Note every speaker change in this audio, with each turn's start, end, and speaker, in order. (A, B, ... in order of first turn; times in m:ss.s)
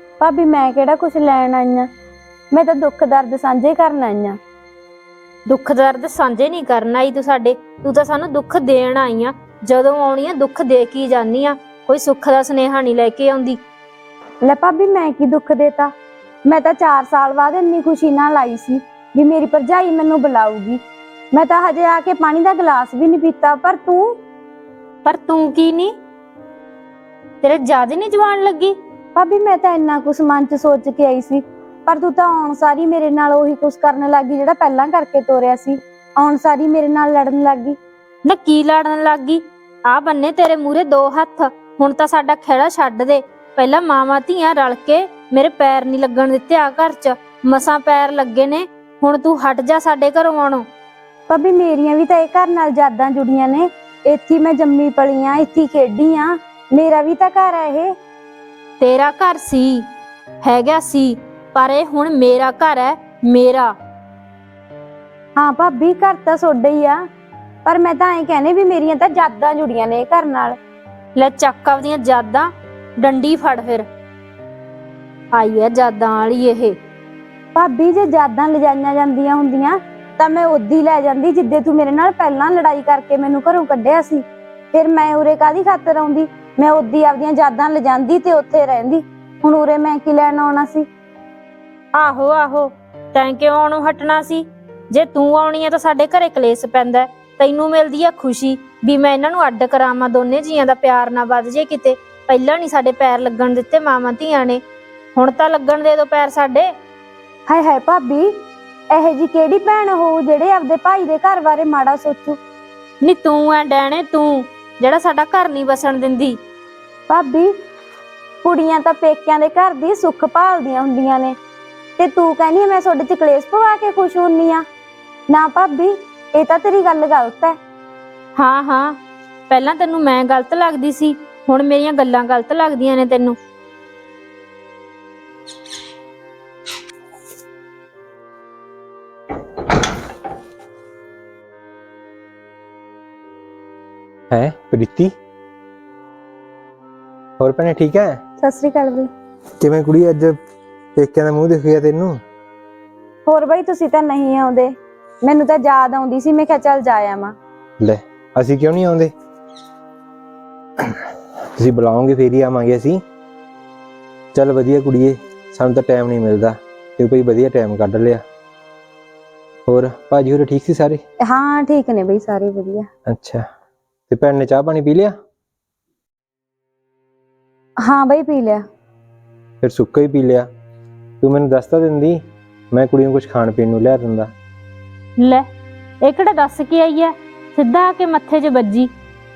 0:00.2-0:01.9 A
0:02.5-0:04.4 A
0:05.5-0:13.6 B
0:14.4-0:15.9 A
0:16.5-0:20.8 A
0:21.3-0:24.2 A
0:25.0-0:25.9 B
0:27.4-0:28.7 B
0:29.2-0:37.8 A
0:38.2-0:50.6 B
0:51.3-0:57.9 A
0:58.8-0:59.8 B
1:00.4-1:03.7 B
1:05.4-1:07.0 A
1:07.6-1:10.6 A
1:11.2-1:12.5 B
1:13.0-1:13.8 B
1:15.3-1:16.8 B
1:17.6-1:30.9 A
1:32.0-1:44.6 B
1:45.2-1:46.7 B
1:47.5-1:48.3 A
1:48.9-1:52.4 A
1:53.0-1:56.4 B
1:57.1-1:57.5 A
1:58.4-2:01.4 A
2:02.0-2:04.6 A
2:05.3-2:07.6 A
2:08.4-2:09.0 B
2:09.5-2:13.4 B
2:24.3-2:25.1 C
2:27.4-2:28.2 C
2:28.4-2:29.1 A
2:29.6-2:30.4 C
2:31.0-2:32.2 C
2:33.3-2:34.7 A
2:35.2-2:37.4 A
2:37.8-2:39.1 C
2:41.6-2:43.0 C
2:44.4-2:48.2 C
2:49.7-2:51.0 C
2:51.3-2:52.9 A
2:53.1-2:53.4 C
2:54.1-2:55.1 C
2:57.8-2:58.6 A
2:59.6-3:00.5 C
3:01.2-3:04.3 C
3:06.0-3:08.9 B